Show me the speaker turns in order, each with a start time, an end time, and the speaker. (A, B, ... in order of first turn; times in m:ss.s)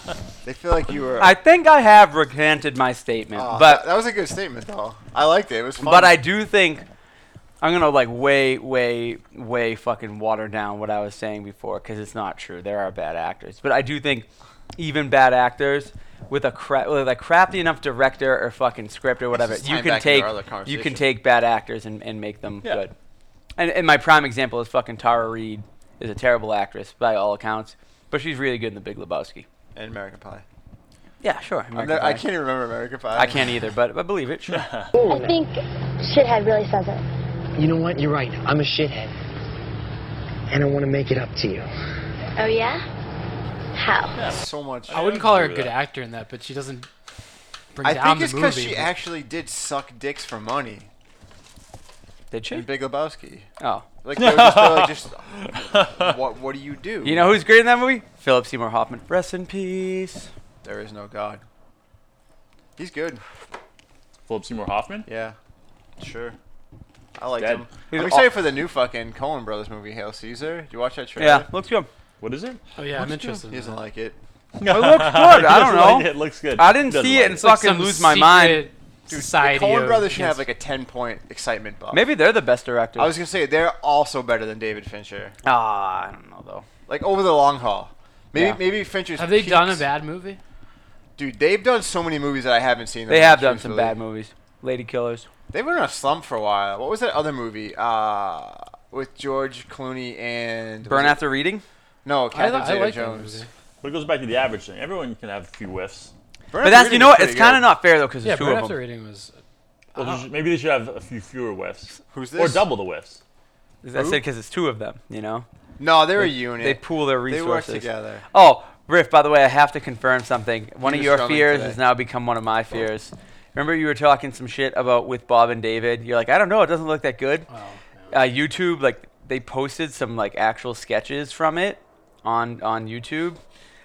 0:00.4-0:01.4 A
0:01.2-0:03.8 B
0:03.4-0:06.2 A
0:05.8-0:06.8 B
0:07.6-0:22.9 B
0:19.3-0:21.1 A
0:23.6-0:29.5 B
0:29.8-0:30.4 A
0:31.2-0:32.3 B
0:31.8-0:33.5 A
0:33.1-0:34.7 B
0:34.5-0:34.9 C
0:34.9-0:35.3 D
0:35.0-0:37.0 E
0:37.6-0:39.1 D
0:40.5-0:41.6 D
0:42.4-0:42.8 E
0:43.8-0:44.2 E
0:44.2-0:45.8 C
0:44.3-0:45.0 A
0:44.9-0:46.9 F
0:47.7-0:48.9 F
0:47.8-0:50.9 A
0:52.3-0:52.8 B
0:52.5-0:53.5 A
0:53.6-0:53.8 B
0:54.0-0:57.3 A
0:54.2-0:56.2 C
0:57.0-1:00.3 B
1:00.6-1:01.4 A
1:02.8-1:03.2 A
1:04.3-1:05.1 C
1:05.1-1:05.4 A
1:06.0-1:06.4 A
1:07.2-1:11.5 A
1:07.4-1:07.6 C
1:07.9-1:08.3 B
1:11.2-1:11.9 B
1:12.2-1:12.6 C
1:12.8-1:13.8 F
1:12.9-1:14.2 A
1:14.6-1:17.4 C
1:14.7-1:18.7 B
1:17.4-1:20.4 F
1:19.1-1:22.0 A
1:21.9-1:23.2 B
1:23.0-1:25.4 A
1:25.4-1:26.7 B
1:26.9-1:29.9 A
1:28.3-1:28.6 B
1:29.2-1:30.4 F
1:31.2-1:34.0 A
1:33.1-1:35.3 B
1:35.5-1:41.2 A
1:40.8-1:41.6 B
1:42.0-1:43.4 A
1:42.3-1:43.5 F
1:43.8-1:46.1 C
1:46.5-1:47.7 A
1:46.6-1:48.8 B
1:48.2-1:49.3 F
1:50.0-1:50.3 F
1:50.0-1:53.2 C
1:52.1-1:52.6 A
1:53.8-1:55.5 B
1:54.0-1:54.2 A
1:55.8-1:58.2 A
1:56.2-2:07.5 B
2:00.8-2:01.8 A
2:07.5-2:08.2 F
2:08.1-2:13.4 B